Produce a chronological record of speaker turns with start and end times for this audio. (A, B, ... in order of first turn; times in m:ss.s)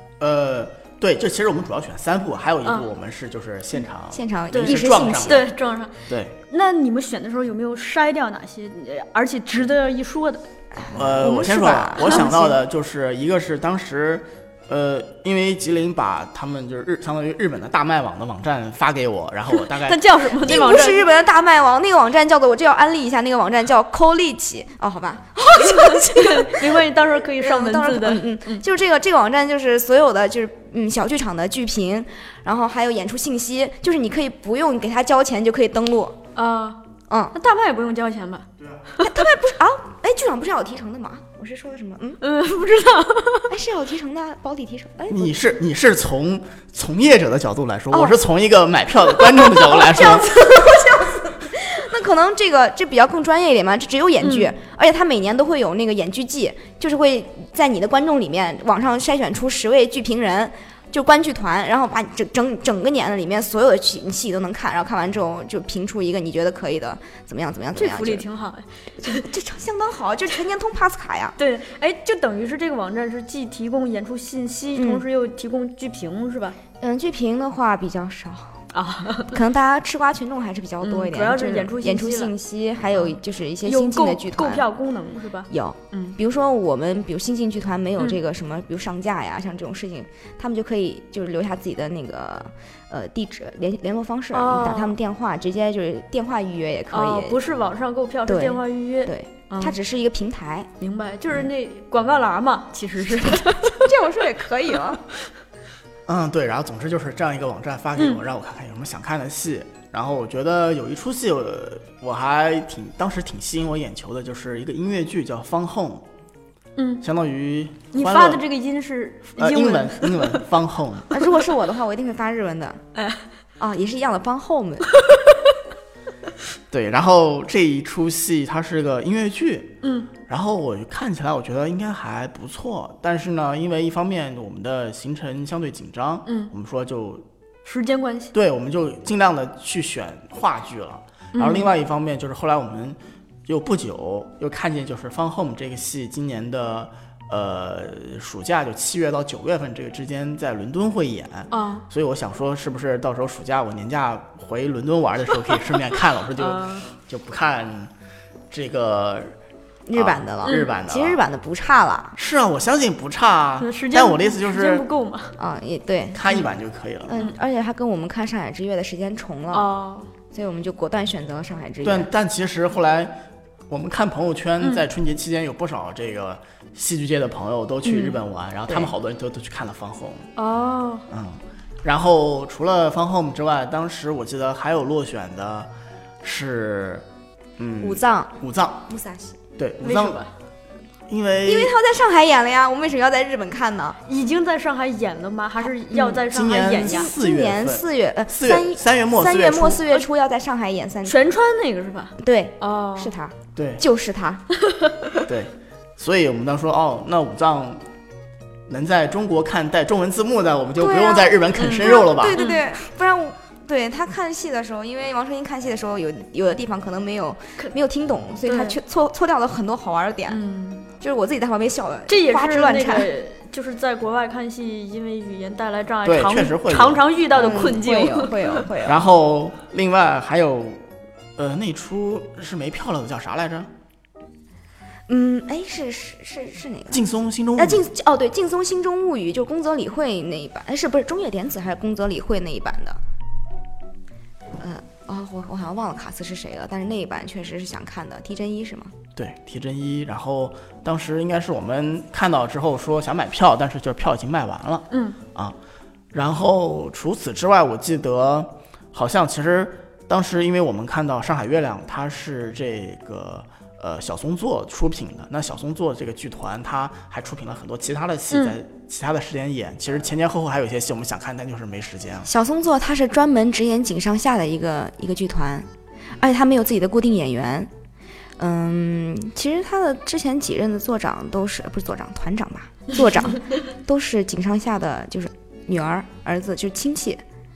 0:00.2-0:05.5 A
0:04.1-0:05.5 B
0:04.5-0:06.0 C
0:06.1-0:06.4 A
0:06.5-0:10.4 C
0:10.8-0:12.6 B
0:10.9-0:20.0 A
0:19.6-0:21.1 C
0:20.4-0:36.2 B
0:25.6-0:28.6 C
0:36.4-0:36.8 C
0:37.3-0:39.1 C
0:38.6-0:38.8 A
0:39.0-0:42.2 B
0:42.2-0:43.5 C
0:43.5-0:45.4 B
0:45.1-0:50.3 A
0:49.7-1:08.3 B
0:50.4-0:50.8 C
0:54.2-0:54.5 C
1:07.8-1:09.3 C
1:09.0-1:11.4 B
1:11.4-1:16.6 C
1:14.8-1:15.0 B
1:16.8-1:18.6 B
1:18.7-1:19.4 C
1:19.3-1:24.7 B
1:20.8-1:22.3 C
1:22.9-1:26.2 C
1:25.5-1:37.4 B
1:34.3-1:35.0 C
1:36.9-1:39.8 C
1:38.3-1:40.7 B
1:40.8-1:43.9 C
1:43.1-1:45.0 B
1:46.1-1:56.1 A
1:56.8-1:57.0 C
1:57.0-1:58.4 A
1:57.9-2:00.4 C
1:59.4-2:01.1 A
2:01.1-2:02.8 B
2:03.0-2:03.3 C
2:03.6-2:04.9 B
2:06.7-2:17.2 A
2:09.8-2:10.1 C
2:16.3-2:16.5 C
2:17.6-2:18.3 C
2:18.3-2:37.9 A
2:21.3-2:21.7 C
2:31.5-2:31.9 C
2:36.4-2:36.9 C
2:38.5-2:39.4 A
2:39.9-2:42.2 B
2:39.9-2:41.2 A
2:42.2-2:44.8 A
2:43.6-2:45.4 C
2:45.4-2:46.2 B
2:46.1-2:47.2 A
2:47.1-2:49.7 B
2:49.5-2:50.1 C
2:50.3-2:52.1 B
2:51.8-3:00.3 A
2:57.8-2:58.2 C
3:00.4-3:01.1 C
3:01.1-3:05.7 A
3:06.2-3:07.1 A
3:07.6-3:08.9 A
3:07.8-3:08.4 B
3:08.9-3:09.4 B
3:09.6-3:10.2 A
3:09.8-3:10.3 C
3:11.1-3:11.8 A
3:11.4-3:14.0 B
3:14.1-3:17.1 C
3:15.9-3:21.2 B
3:16.3-3:19.9 A
3:21.0-3:23.2 C
3:22.2-3:24.4 B
3:23.6-3:23.8 A
3:24.6-3:25.0 C
3:25.3-3:27.8 A
3:28.7-3:32.4 A
3:30.8-3:40.4 B
3:31.6-3:32.6 C
3:38.5-3:38.8 C
3:40.3-3:40.8 C
3:41.0-3:43.1 B
3:42.1-3:48.6 C
3:46.0-3:47.6 A
3:47.3-3:49.0 B
3:48.8-3:50.8 A
3:51.4-3:53.7 A
3:55.1-3:57.0 B
3:56.9-3:57.9 A
3:57.6-4:03.0 B
4:04.6-4:08.9 B
4:09.2-4:15.6 A
4:14.9-4:15.2 C
4:16.1-4:32.3 A
4:28.3-4:28.6 C
4:32.3-4:35.7 B
4:36.2-4:37.7 B
4:38.4-4:47.2 B